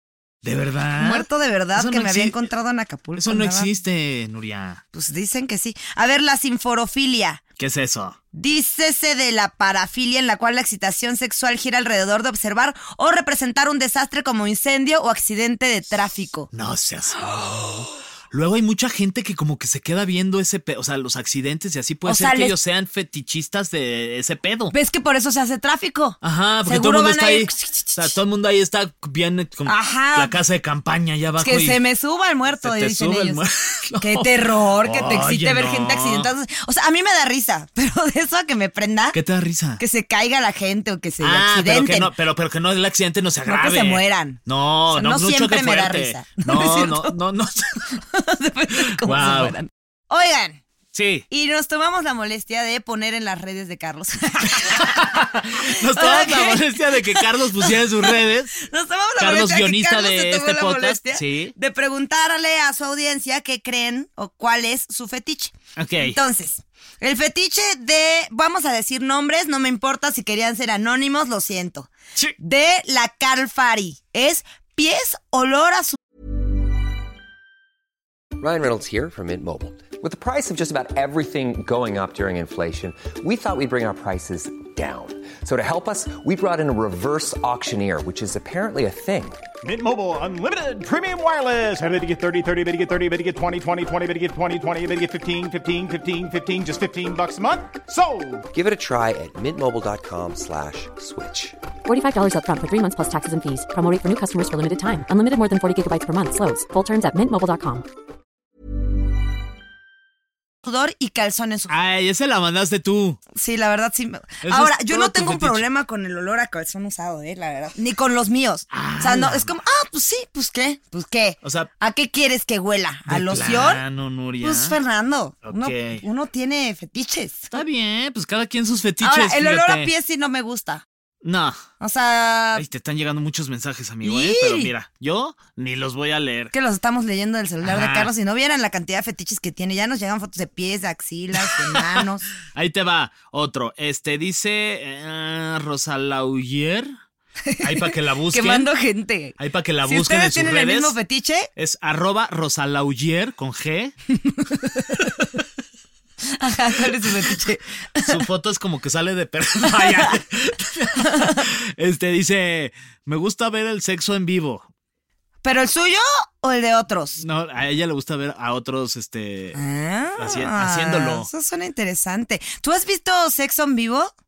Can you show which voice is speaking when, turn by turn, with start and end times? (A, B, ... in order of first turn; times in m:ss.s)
0:00.4-0:02.4 A
0:01.0-0:03.7 B
0:03.2-0:04.8 A
0:04.9-0:07.4 B
0:07.6-0:08.2 A
0:08.3-0:16.5 B
0:16.5-0:24.7 A
0:22.1-0:22.6 B
0:24.7-0:28.2 B
0:26.2-0:31.8 A
0:29.7-0:30.3 B
0:31.4-0:33.4 B
0:32.6-0:36.3 A
0:34.0-0:39.2 B
0:39.1-0:39.8 A
0:39.8-0:42.1 B
0:41.2-0:48.0 A
0:43.5-0:47.2 B
0:48.1-0:50.6 B
0:48.8-0:49.6 A
0:50.9-0:51.2 A
0:51.3-1:16.0 B
0:54.5-0:58.6 A
0:59.2-1:01.5 A
1:05.8-1:06.2 A
1:18.4-1:29.4 C
1:29.6-1:38.5 D
1:38.5-1:41.6 C
1:41.9-1:47.8 E
1:50.6-1:51.7 B
1:51.7-1:53.2 A
1:53.3-2:03.8 B
1:54.4-1:55.6 A
1:58.7-1:59.5 A
2:01.4-2:01.7 A
2:03.1-2:04.8 A
2:04.4-2:07.5 B
2:05.4-2:06.0 A
2:07.5-2:09.9 A
2:09.0-2:10.8 B
2:11.2-2:11.6 A
2:11.8-2:12.6 B
2:12.6-2:16.5 A
2:14.0-2:14.7 B
2:16.5-2:22.3 B
2:17.6-2:18.1 A
2:21.4-2:22.0 A
2:22.5-2:26.9 A
2:27.5-2:31.5 B
2:27.6-2:28.7 A
2:29.4-2:31.0 A
2:31.6-2:34.0 A
2:34.1-2:35.1 B
2:36.3-2:38.2 B
2:38.0-2:44.7 A
2:39.7-2:40.2 B
2:41.0-2:41.4 B
2:45.4-2:47.2 B
2:47.2-2:49.6 A
2:49.6-2:54.1 B
2:50.2-2:51.3 A